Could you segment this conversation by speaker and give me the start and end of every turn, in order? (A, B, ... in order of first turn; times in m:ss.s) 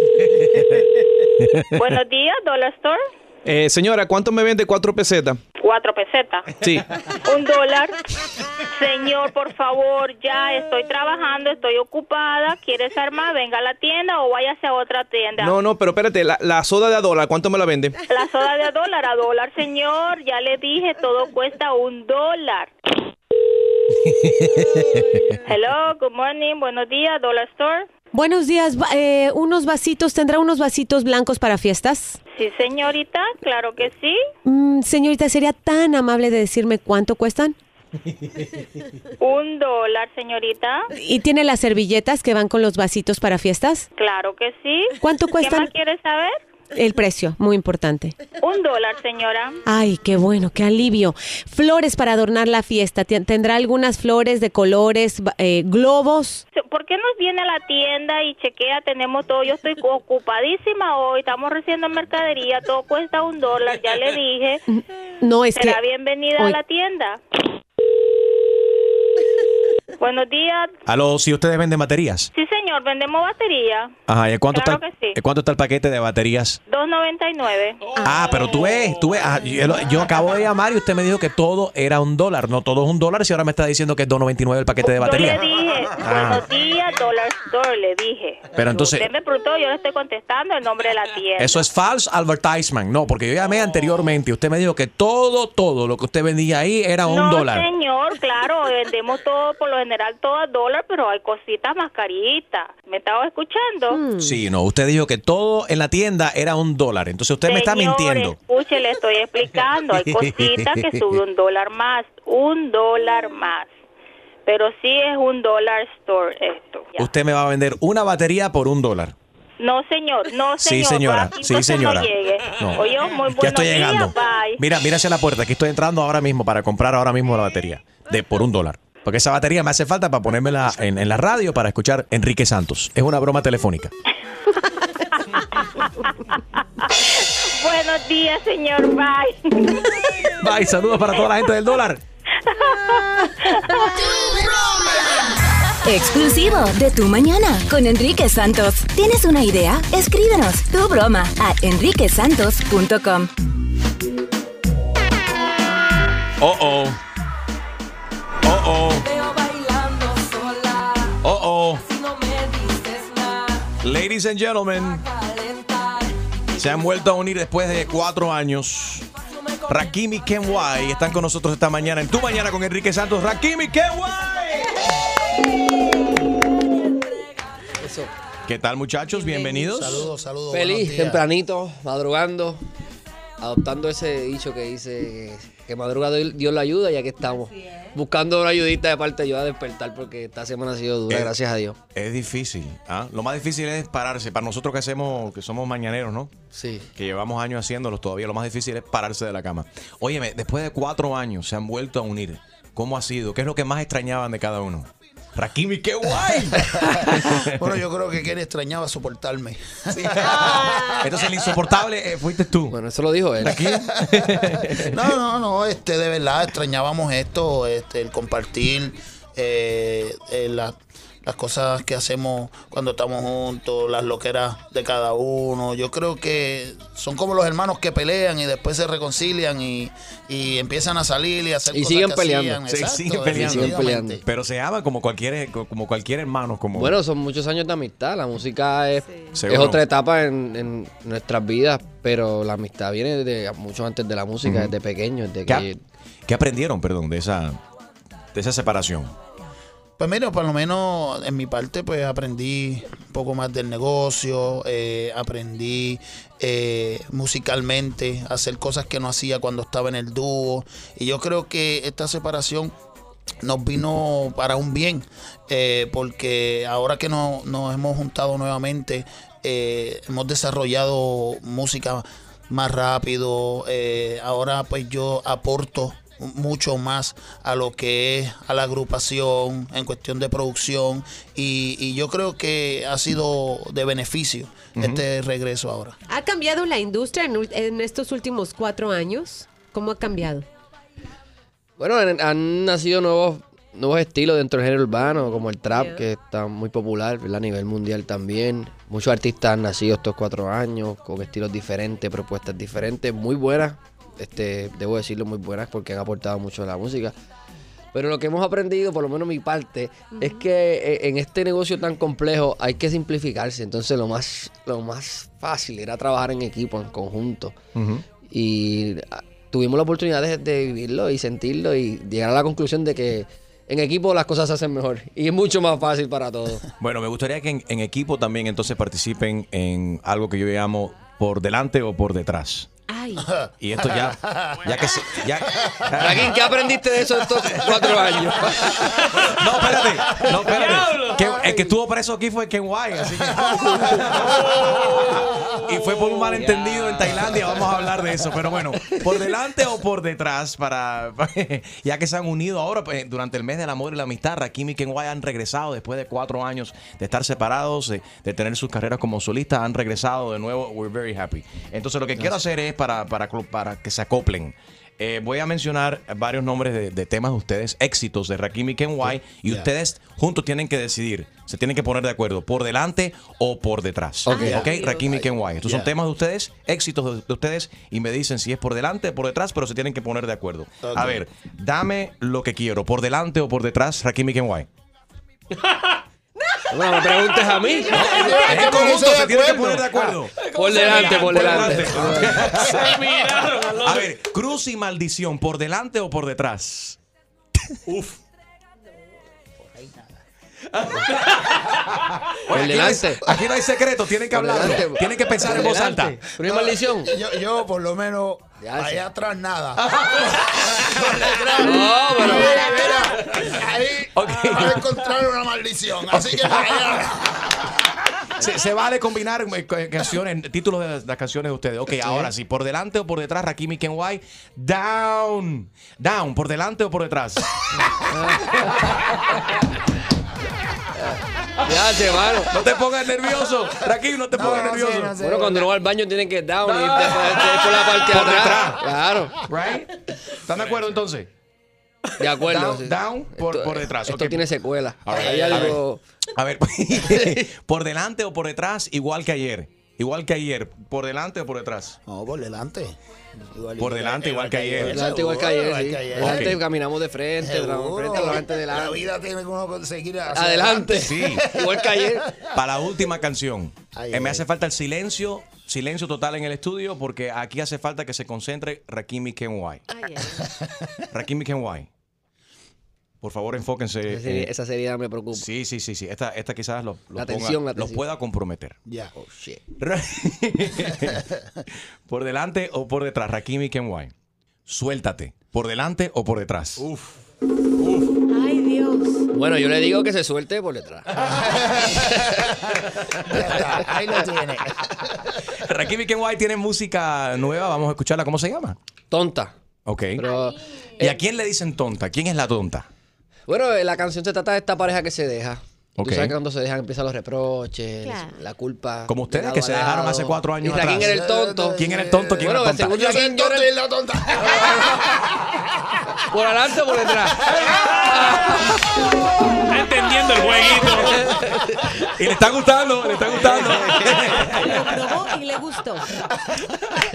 0:01.8-0:03.0 A
0:03.4-0:05.4 B
0:05.6-0:06.5 A
0:06.6-0:06.8 B
0:07.3-0:08.0 A
0:08.8-0:15.5 A
0:15.4-0:18.0 B
0:18.1-0:22.7 A
0:24.1-0:25.1 C
0:25.5-0:27.9 A
0:28.1-0:32.2 D
0:32.4-0:34.2 A
0:34.4-0:37.6 D
0:39.2-0:40.9 A
0:41.0-0:43.9 D
0:44.0-0:46.4 A
0:45.0-0:45.7 D
0:46.7-0:48.2 D
0:48.4-0:49.6 A
0:49.7-0:56.4 D
0:56.6-1:04.6 A
1:04.7-1:05.8 D
1:05.6-1:07.2 A
1:10.0-1:10.7 A
1:10.9-1:12.3 C
1:12.4-1:13.9 A
1:14.1-1:16.6 C
1:14.5-1:15.2 A
1:16.7-1:17.8 A
1:18.0-1:25.4 C
1:24.8-1:31.6 A
1:26.0-1:26.5 C
1:28.6-1:29.1 C
1:31.4-1:37.6 C
1:37.1-1:44.0 A
1:43.9-1:44.4 D
1:44.2-1:48.4 C
1:47.5-1:53.7 A
1:50.0-1:50.9 C
1:54.5-1:57.1 A
1:57.0-1:59.2 C
1:59.6-2:04.6 A
2:00.6-2:13.9 C
2:17.2-2:19.8 A
2:20.4-2:22.0 C
2:22.5-2:23.8 A
2:25.8-2:33.3 E
2:36.4-2:37.0 C
2:38.4-2:39.0 C
2:41.2-2:41.8 C
2:43.8-2:45.0 C
2:46.6-2:49.1 C
2:49.7-2:54.7 C
2:57.8-2:58.1 F
2:58.5-3:00.1 C
2:59.2-3:00.0 D
2:59.7-3:01.2 G
3:00.5-3:02.6 F
3:03.4-3:11.8 F
3:07.2-3:07.8 D
3:11.1-3:11.3 C
3:12.0-3:16.3 C
3:16.5-3:16.9 F
3:17.0-3:27.7 C
3:26.2-3:31.6 G
3:30.2-3:31.1 D
3:30.6-3:32.8 C
3:32.7-3:33.7 F
3:33.4-3:34.9 C
3:33.5-3:54.2 G
3:51.7-3:52.6 F
3:52.7-3:57.0 C
3:53.2-3:54.2 F
3:56.7-4:05.8 F
3:59.0-3:59.4 D
3:59.4-3:59.8 C
4:04.4-4:04.7 C
4:06.3-4:07.6 C
4:08.3-4:09.1 C
4:10.0-4:22.8 G
4:23.4-4:46.0 G
4:44.8-4:45.0 C
4:46.1-4:50.5 D
4:51.8-5:07.1 F
4:55.0-4:56.0 D
5:07.9-5:17.6 F
5:10.1-5:10.5 D
5:17.8-5:18.1 C
5:18.2-5:26.6 F
5:26.8-5:32.7 C
5:32.9-5:33.3 D
5:33.3-5:35.0 G
5:33.6-5:36.4 C
5:35.6-5:36.5 G
5:35.9-5:38.8 F
5:37.5-5:37.8 G
5:39.0-5:39.3 H
5:39.3-5:44.4 C
5:40.1-5:40.4 G
5:40.4-5:41.3 H
5:41.2-5:41.7 G
5:43.3-5:44.9 G
5:44.2-5:47.2 H
5:45.7-6:24.7 C
6:14.3-6:15.1 D
6:14.4-6:15.9 G
6:20.8-6:21.2 G
6:26.7-6:29.0 F
6:26.9-6:27.8 H
6:27.9-6:28.3 D
6:27.9-6:30.2 G
6:28.2-6:32.9 C
6:30.4-6:34.1 H
6:30.5-6:32.5 F
6:31.5-6:32.8 G
6:33.8-6:37.0 C
6:39.7-6:40.1 G
6:42.5-6:46.2 C
6:42.5-6:43.2 F
6:44.3-6:47.1 F
6:46.4-6:57.7 G
6:48.6-6:49.1 F
6:51.6-6:52.9 F
6:52.4-6:52.9 D
6:54.3-6:54.8 H
6:58.4-7:07.4 C
7:02.0-7:02.3 F
7:08.1-7:09.0 F
7:11.0-7:12.5 F
7:12.5-7:15.2 C
7:14.3-7:15.7 G
7:15.2-7:19.4 F
7:18.0-7:18.8 C
7:19.5-7:19.9 C
7:20.4-7:21.3 C
7:22.2-7:26.0 F
7:22.5-7:24.4 C
7:25.0-7:25.8 C
7:25.1-7:25.8 G
7:26.4-7:32.0 C
7:32.1-7:33.0 G
7:33.5-7:36.6 G
7:33.8-7:35.1 C
7:34.7-7:39.1 F
7:36.2-7:36.6 C
7:37.4-7:42.4 G
7:40.3-7:42.2 F
7:41.0-7:41.5 C
7:42.5-7:49.9 C
7:43.9-7:44.4 G
7:49.9-7:50.4 D
7:51.1-7:51.9 C
7:53.2-7:54.5 C
7:54.1-7:55.5 F
7:55.3-7:58.8 C
7:57.2-7:58.0 F
7:58.9-7:59.1 G
7:59.2-7:59.6 F
7:59.8-8:01.2 C
8:02.1-8:04.1 C
8:04.7-8:06.8 C
8:08.3-8:09.2 D
8:09.3-8:11.1 F
8:11.2-8:12.5 G
8:13.2-8:15.1 G
8:15.6-8:18.8 C
8:19.1-8:19.5 F
8:19.9-8:20.2 C
8:20.2-8:21.2 F
8:20.2-8:20.5 D
8:21.0-8:22.9 C
8:23.5-8:33.8 F
8:26.0-8:26.4 C
8:28.0-8:28.4 D
8:29.1-8:31.2 C
8:30.8-8:35.6 G
8:31.8-8:33.2 C
8:34.4-8:35.0 F
8:36.3-8:38.5 H
8:36.4-8:37.3 F
8:37.0-8:37.7 G
8:38.0-8:38.6 F
8:39.7-8:41.5 H
8:40.5-8:41.3 F
8:42.1-8:44.8 C
8:43.4-8:44.0 H
8:44.6-8:46.1 D